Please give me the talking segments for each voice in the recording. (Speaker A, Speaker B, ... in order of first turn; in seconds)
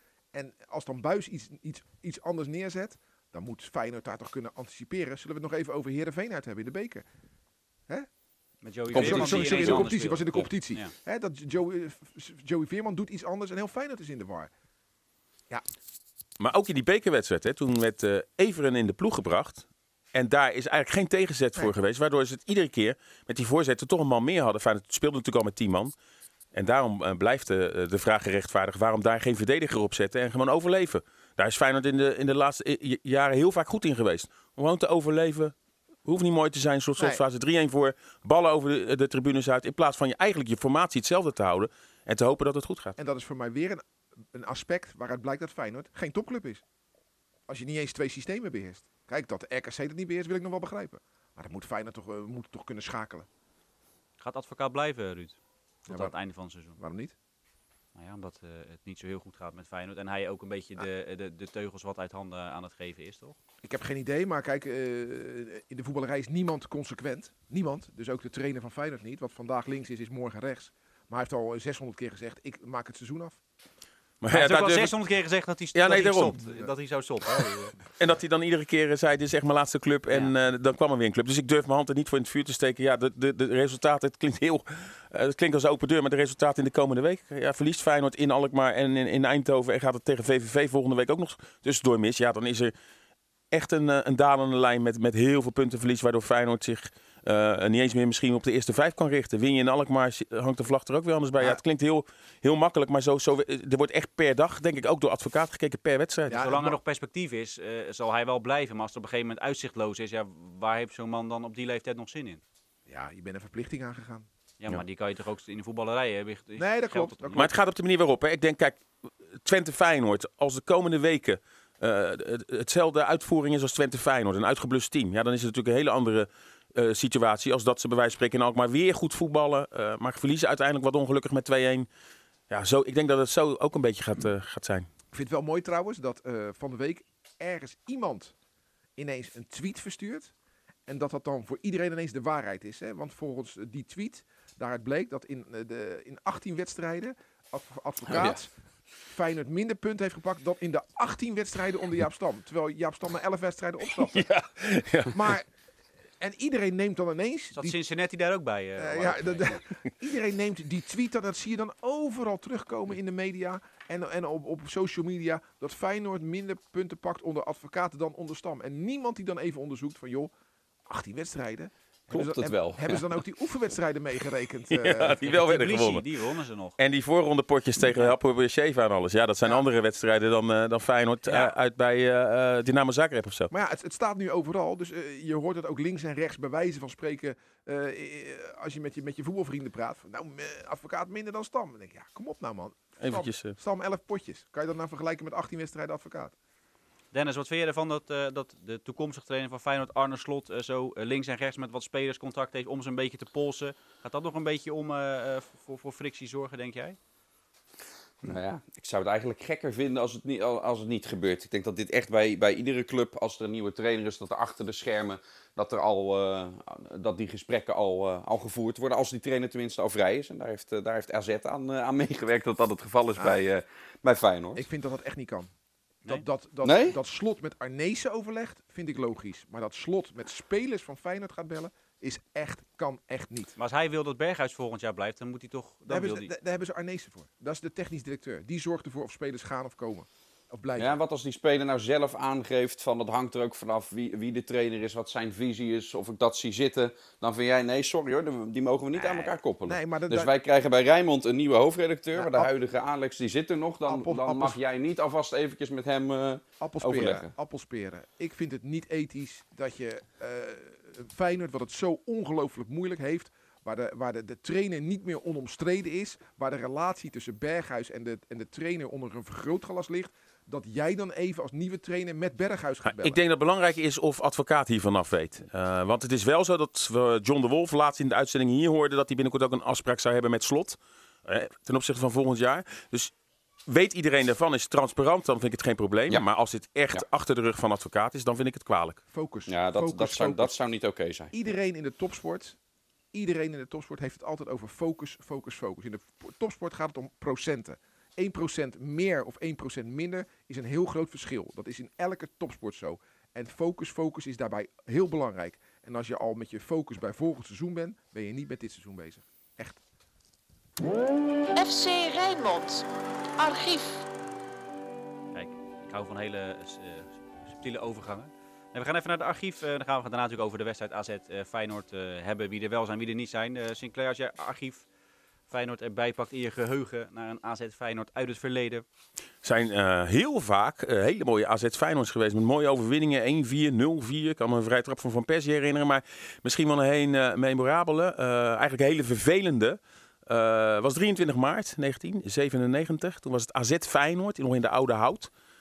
Speaker A: 0.3-7.0, 8.9-14.5, 37.0-37.2, 43.0-46.6, 47.5-53.3, 55.9-56.1, 56.8-57.1, 63.6-73.4, 106.3-106.8, 112.9-114.3, 116.6-117.6, 135.1-138.3, 139.0-140.3, 140.9-148.5, 149.1-154.3, 155.1-155.5, 156.2-157.8, 158.8-170.3, 170.9-175.2, 183.5-196.3, 223.2-223.4, 224.6-225.5, 226.1-233.5, 235.9-241.0, 248.9-250.3, 252.2-252.5, 253.9-254.6, 256.6-273.2, 289.1-290.5, 291.3-292.6, 293.1-309.8
Speaker B: 8.6-10.9, 54.2-56.8, 58.0-63.4, 74.3-77.8, 80.1-80.3, 106.3-112.4, 114.6-117.4, 157.5-159.6, 175.2-176.8, 197.1-207.0, 233.6-236.3, 315.3-324.9, 325.5-328.9
Speaker C: 8.9-9.9, 148.1-148.4, 172.1-173.1, 208.2-224.7, 226.6-227.0, 240.8-257.3, 289.5-291.3
Speaker D: 16.4-25.9, 26.5-43.0, 74.2-74.9, 75.7-76.4, 78.0-92.7, 93.5-106.4, 117.3-118.8, 119.4-131.9, 132.5-134.9, 154.0-155.3, 174.7-176.1, 176.8-183.5, 193.0-193.6, 272.9-283.1, 283.7-289.0, 329.4-345.3
Speaker E: 311.6-312.8, 313.4-314.0